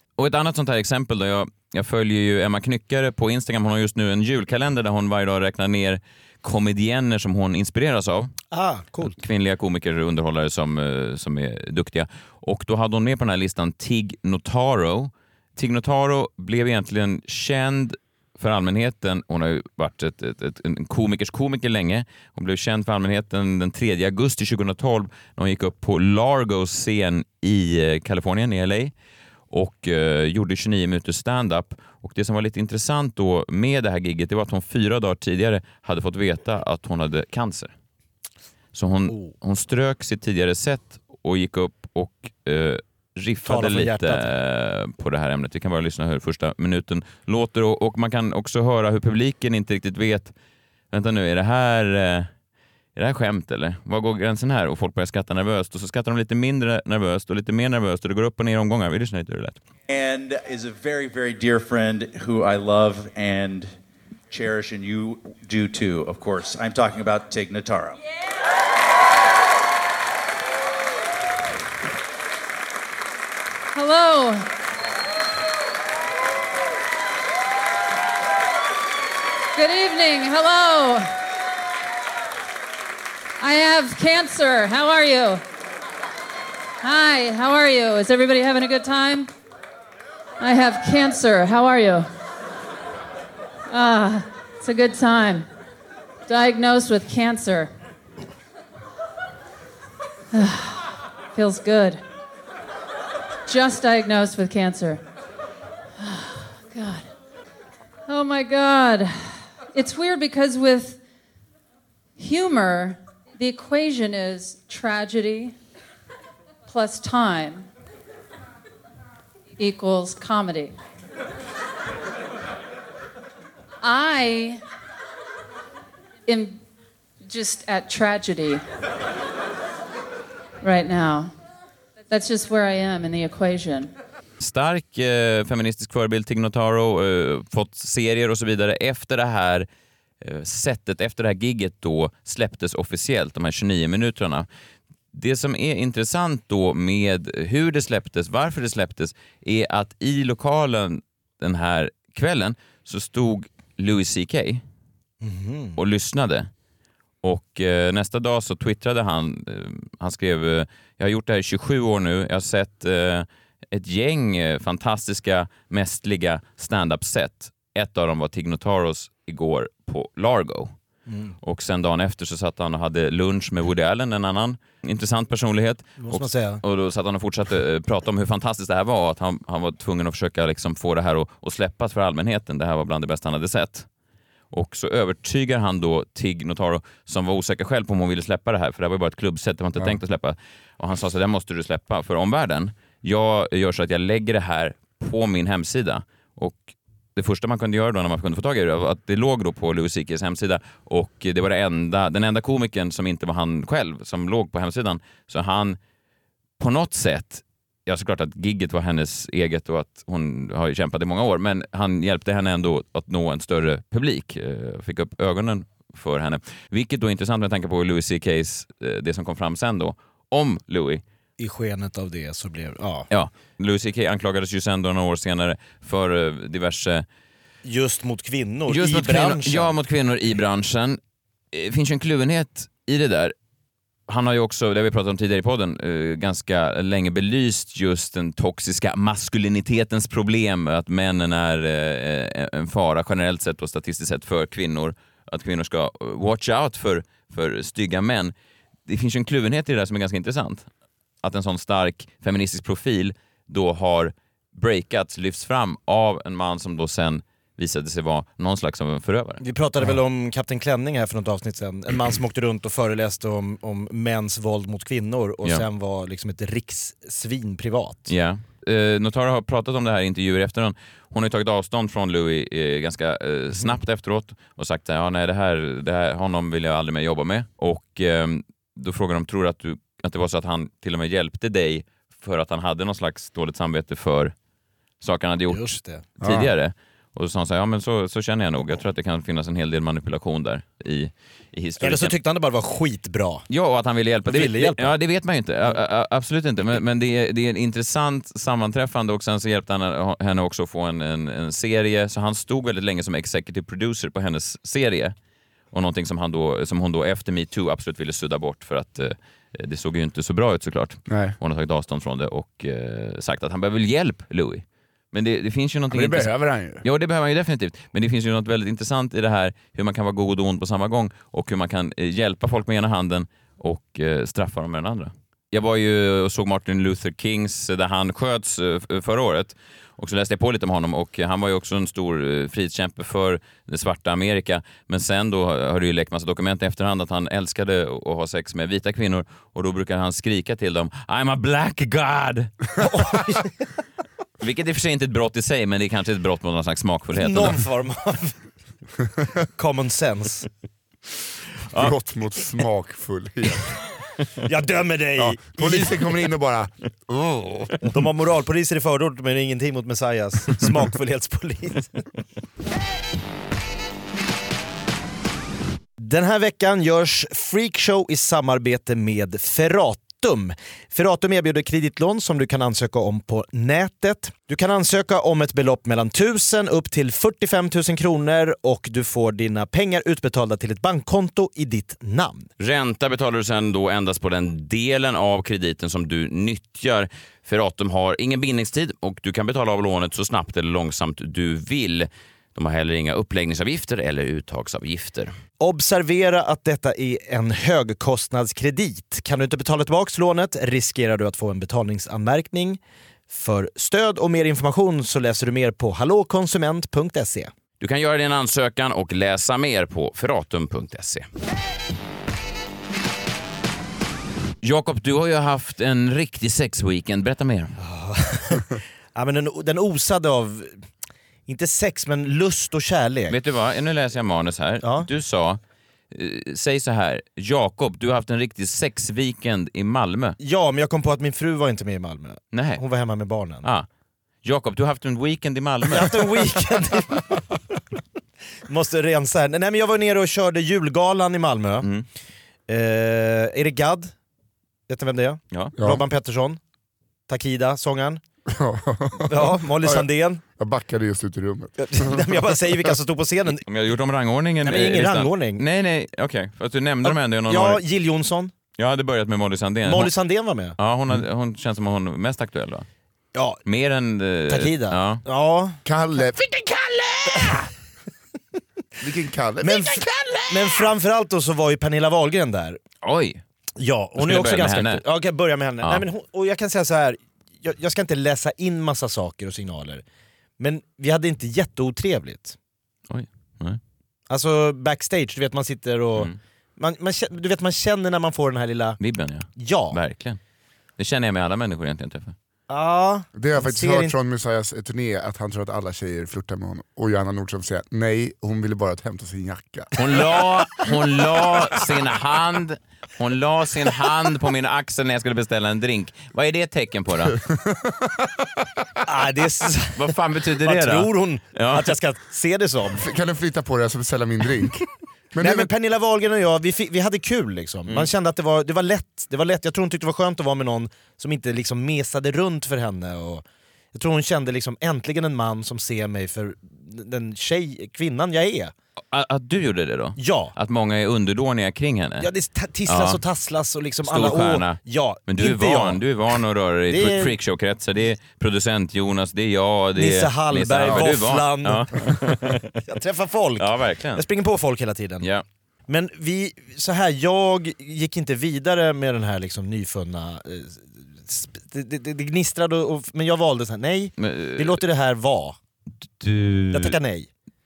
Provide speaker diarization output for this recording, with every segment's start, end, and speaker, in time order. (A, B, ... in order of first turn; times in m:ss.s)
0:00.2-0:08.3 A
0:08.5-0:09.2 B
0:09.0-0:28.9 A
0:29.5-0:37.7 A
0:38.7-0:50.3 A
0:43.4-0:44.3 B
0:50.9-0:52.3 A
0:53.0-0:59.6 A
0:59.9-1:03.7 C
1:04.3-1:08.0 C
1:13.7-1:14.5 D
1:19.6-1:21.1 D
1:23.4-1:25.4 D
1:26.8-1:29.3 D
1:30.4-1:32.1 D
1:33.7-1:35.5 D
1:36.3-1:37.7 D
1:40.3-1:42.0 D
1:43.5-1:45.0 D
1:46.0-1:47.1 D
1:48.1-1:51.0 D
1:52.2-1:55.6 D
1:56.7-1:57.7 D
1:59.6-2:00.8 D
2:03.8-2:04.6 D
2:06.3-2:06.6 D
2:07.2-2:08.6 D
2:10.6-2:11.3 D
2:12.1-2:13.9 D
2:14.4-2:19.7 A
2:20.2-2:24.5 A
2:25.1-2:34.6 A
2:35.2-2:35.8 B
2:35.8-2:36.5 A
2:37.2-2:50.7 A
2:51.1-2:51.4 B
2:51.4-3:03.9 A
2:56.0-2:56.6 B
3:04.5-3:25.8 A
3:26.6-3:41.0 A
3:41.4-3:43.1 B
3:43.1-3:47.0 A
3:47.6-3:49.7 B
3:48.7-3:51.0 A
3:51.5-3:53.3 A
3:54.1-4:08.3 A
4:08.9-4:10.7 A
4:11.2-4:19.4 A
4:19.4-4:28.1 B
4:28.1-4:44.3 A
4:45.0-4:52.2 A
4:45.5-4:46.0 B
4:46.2-4:46.5 E
4:51.8-4:53.4 B
4:53.5-5:05.1 A
4:54.3-4:54.9 B
5:05.7-5:16.3 A
5:11.1-5:11.4 E
5:15.9-5:16.8 E
5:16.8-5:43.1 A
5:42.8-5:43.6 B
5:44.4-5:47.6 A
5:47.2-5:48.4 B
5:49.6-5:50.5 B
5:51.7-5:52.0 A
5:51.8-5:53.7 E
5:54.4-5:56.1 B
5:55.2-5:57.8 E
5:57.9-6:02.0 B
6:06.0-6:22.5 B
6:22.6-6:35.3 A
6:35.6-6:47.5 B
6:47.8-6:51.3 A
6:54.6-6:57.7 A
6:57.8-7:00.8 B
7:01.5-7:03.4 B
7:03.3-7:05.6 A
7:06.1-7:10.4 A
7:10.4-7:13.7 B
7:12.5-7:12.8 A
7:14.4-7:16.4 A
7:15.9-7:17.4 B
7:18.7-7:21.9 B
7:21.8-7:22.1 A
7:22.7-7:24.1 B
7:24.9-7:26.6 B
7:25.8-7:26.0 E
7:27.3-7:28.2 B
7:28.5-7:32.9 E
7:29.3-7:30.4 B
7:31.8-7:33.6 B
7:33.6-7:37.8 A
7:34.6-7:35.6 B
7:37.0-7:38.5 B
7:38.8-7:40.1 A
7:39.8-7:40.8 B
7:40.8-7:42.9 A
7:43.4-7:43.6 B
7:43.7-7:45.2 A
7:44.5-7:45.8 B
7:45.8-7:47.6 E
7:49.0-7:50.4 E
7:49.6-7:52.8 B
7:53.0-7:53.4 A
7:53.8-8:00.0 B
7:54.2-7:55.0 A
8:00.6-8:02.6 B
8:03.1-8:03.8 A
8:04.3-8:09.0 B
8:09.0-8:10.4 A
8:09.6-8:10.0 B
8:11.0-8:12.4 A
8:12.7-8:14.2 B
8:13.3-8:19.9 E
8:20.0-8:27.4 A
8:27.3-8:28.7 E
8:29.0-8:30.1 B
8:30.0-8:32.0 A
8:30.6-8:33.0 B
8:32.9-8:35.7 E
8:35.4-8:48.7 B
8:49.1-8:52.3 A
8:50.2-8:50.5 B
8:52.2-8:56.0 B
8:52.9-8:53.2 A
8:54.0-9:02.7 A
8:56.9-8:57.3 B
9:00.0-9:01.9 B
9:02.8-9:05.3 B
9:03.6-9:04.2 A
9:05.9-9:15.6 B
9:14.2-9:14.8 A
9:16.2-9:17.0 A
9:16.7-9:17.3 B